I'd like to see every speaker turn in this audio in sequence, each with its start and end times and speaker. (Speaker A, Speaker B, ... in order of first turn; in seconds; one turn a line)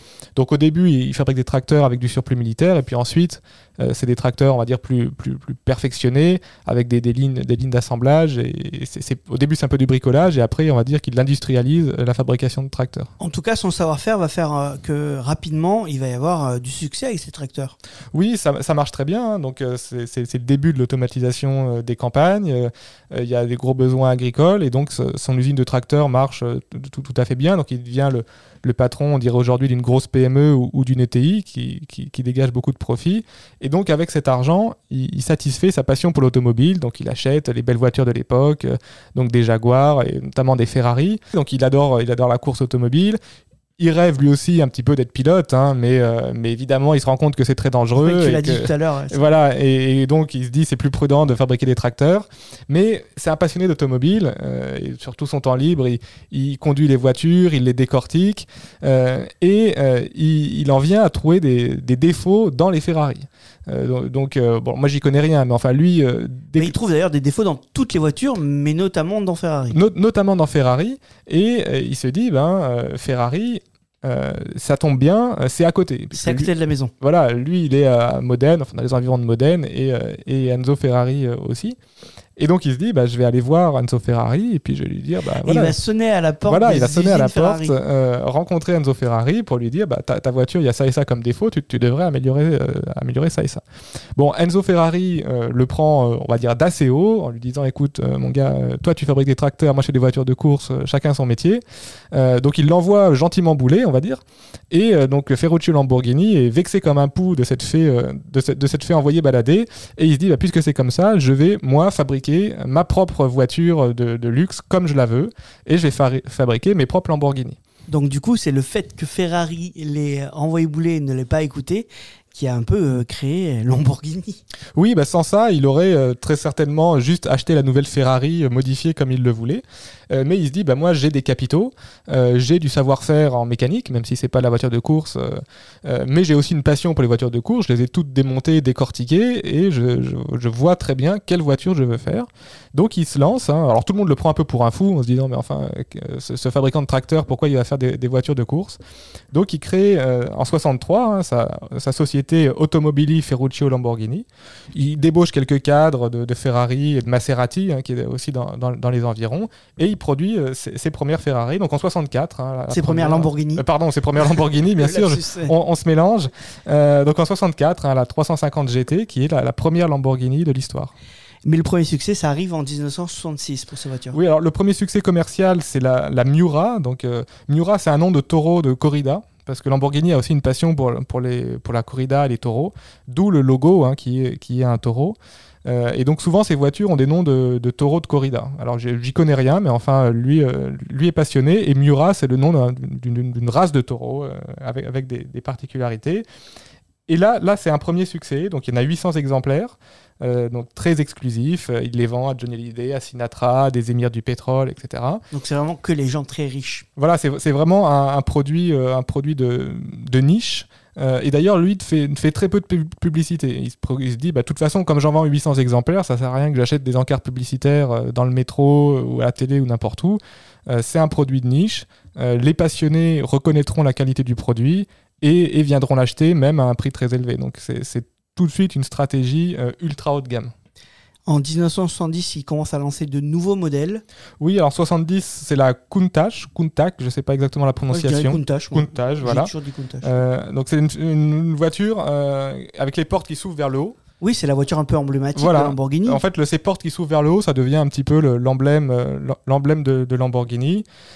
Speaker A: 0.4-13.1
Speaker B: 13.2-17.8
Speaker A: 18.1-43.2
Speaker A: 43.8-66.8
Speaker B: 48.0-49.2
Speaker B: 66.6-69.8
Speaker A: 69.7-81.8
Speaker B: 76.1-76.9
Speaker A: 82.4-85.8
Speaker B: 85.5-87.8
Speaker A: 86.5-93.6
Speaker A: 94.2-117.6
Speaker B: 117.9-124.4
Speaker A: 124.8-148.8
Speaker A: 149.3-170.9
Speaker B: 162.7-163.6
Speaker B: 164.8-165.5
Speaker B: 171.4-174.2
Speaker A: 174.1-196.2
Speaker A: 197.1-205.2
Speaker B: 205.3-206.9
Speaker A: 207.0-230.5
Speaker B: 231.3-234.0
Speaker A: 234.4-239.5
Speaker B: 237.9-240.2
Speaker A: 240.0-244.0
Speaker B: 244.2-246.2
Speaker A: 245.4-250.8